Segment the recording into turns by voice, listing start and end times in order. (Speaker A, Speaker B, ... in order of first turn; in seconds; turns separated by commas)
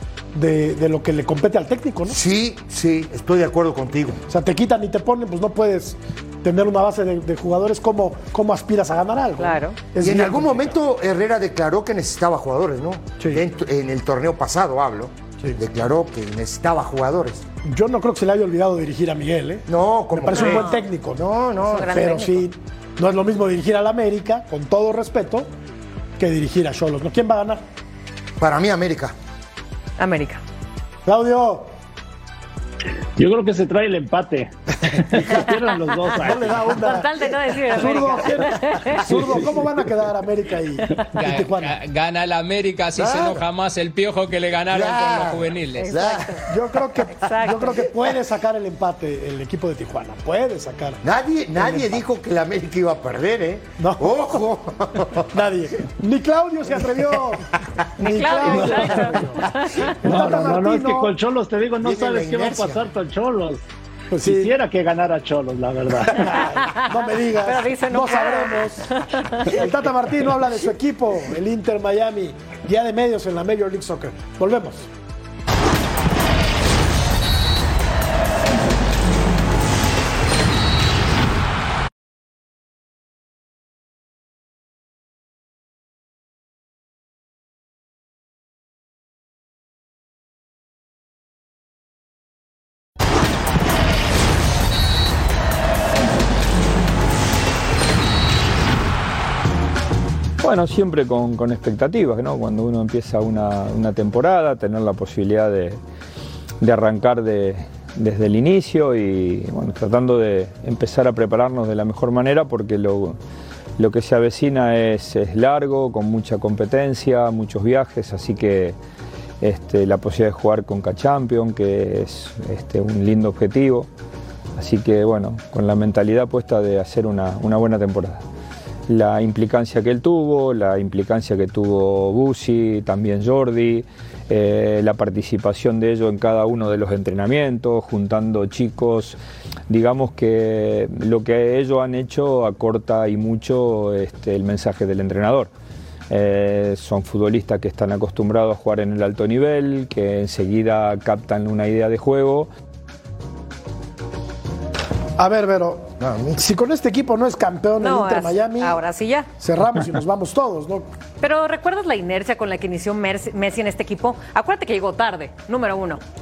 Speaker A: 0.3-2.2, Speaker B: 2.1-4.2, Speaker A: 4.3-10.8, Speaker C: 9.4-9.8, Speaker B: 10.0-17.4, Speaker A: 13.2-13.4, Speaker A: 17.6-25.5, Speaker B: 19.7-22.4, Speaker C: 20.4-20.8, Speaker C: 21.6-22.4, Speaker A: 26.2-27.6, Speaker B: 28.4-29.1, Speaker C: 30.0-30.4, Speaker A: 31.1-31.7, Speaker D: 33.2-36.8, Speaker A: 35.1-41.8, Speaker C: 36.7-39.0, Speaker D: 39.1-39.6, Speaker E: 41.1-45.9, Speaker B: 43.0-43.4, Speaker B: 44.7-46.6, Speaker C: 45.8-46.5, Speaker A: 46.5-51.0, Speaker C: 47.1-47.8, Speaker B: 51.0-55.3, Speaker A: 51.6-52.0, Speaker A: 53.8-54.2, Speaker A: 55.3-57.5, Speaker A: 58.0-61.1, Speaker C: 58.0-60.0, Speaker D: 60.0-63.6, Speaker B: 61.8-62.8, Speaker A: 64.1-64.5, Speaker D: 64.2-66.4, Speaker A: 66.1-74.9, Speaker C: 66.5-66.9, Speaker C: 67.4-69.7, Speaker F: 100.4-105.8, Speaker F: 106.6-113.2, Speaker F: 113.8-118.8, Speaker F: 119.4-123.9, Speaker F: 124.6-128.2, Speaker F: 128.9-145.5, Speaker F: 146.1-152.5, Speaker A: 155.2-158.8, Speaker B: 156.0-156.4, Speaker C: 157.8-159.3, Speaker A: 159.4-160.9, Speaker C: 161.2-166.0